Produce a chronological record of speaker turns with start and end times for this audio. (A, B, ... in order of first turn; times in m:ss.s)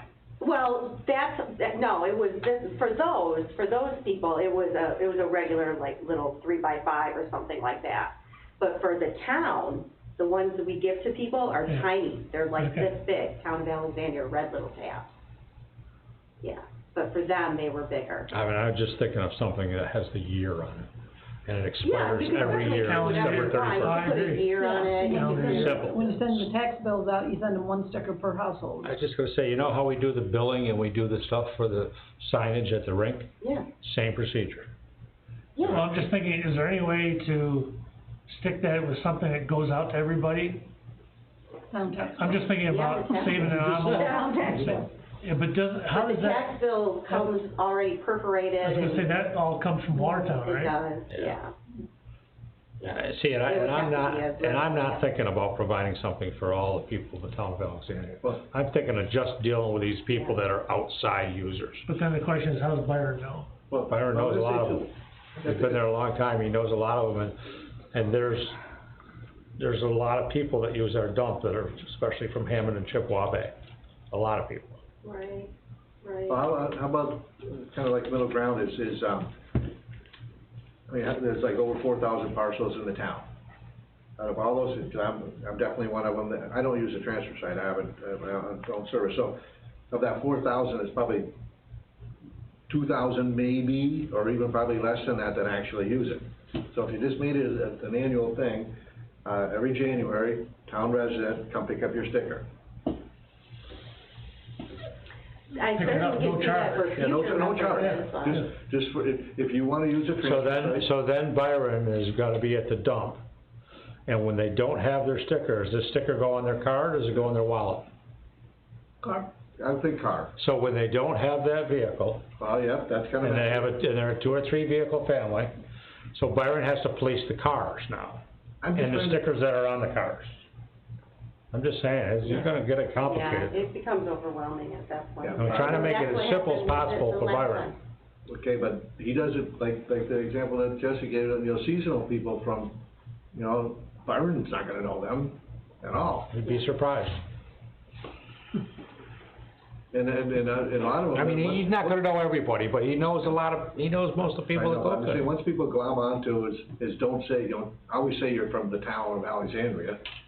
0:00.4-0:15.1 A
0:12.6-0:12.9 B
0:16.4-0:18.3 A
0:18.3-0:20.9 C
0:21.5-0:24.1 C
0:21.8-0:25.9 A
0:22.6-0:25.7 B
0:24.6-0:29.0 D
0:25.4-0:26.4 C
0:28.8-0:33.3 C
0:33.4-0:33.7 A
0:33.8-0:34.7 C
0:35.6-0:35.8 A
0:35.6-0:40.7 B
0:41.7-0:44.9 D
0:42.2-0:46.5 B
0:42.7-0:44.3 A
0:43.6-0:44.7 C
0:45.9-0:49.1 A
0:48.6-0:50.8 B
0:50.3-0:51.5 A
0:51.1-0:51.4 C
0:52.8-1:01.8 C
0:53.4-0:55.1 A
1:01.9-1:03.5 B
1:03.7-1:05.8 E
1:03.8-1:04.9 C
1:05.4-1:07.4 C
1:07.9-1:08.6 C
1:09.6-1:13.6 C
1:14.1-1:14.8 C
1:15.0-1:15.5 A
1:16.0-1:16.5 A
1:16.3-1:19.3 E
1:20.9-1:23.3 E
1:24.2-1:29.4 E
1:29.9-1:31.3 E
1:32.7-1:42.5 E
1:45.5-1:48.5 A
1:45.7-1:48.4 B
1:46.9-1:50.9 E
1:50.2-1:53.2 C
1:54.1-1:57.9 C
1:59.0-2:00.3 E
2:00.4-2:02.3 C
2:02.4-2:03.7 E
2:03.2-2:05.5 C
2:06.1-2:08.2 C
2:08.6-2:09.2 E
2:08.7-2:10.3 C
2:11.5-2:13.6 C
2:13.0-2:17.8 A
2:15.2-2:16.0 E
2:15.4-2:17.7 C
2:18.3-2:22.8 E
2:23.3-2:26.3 E
2:26.3-2:27.2 C
2:29.9-2:32.0 E
2:31.2-2:35.3 C
2:34.5-2:40.0 E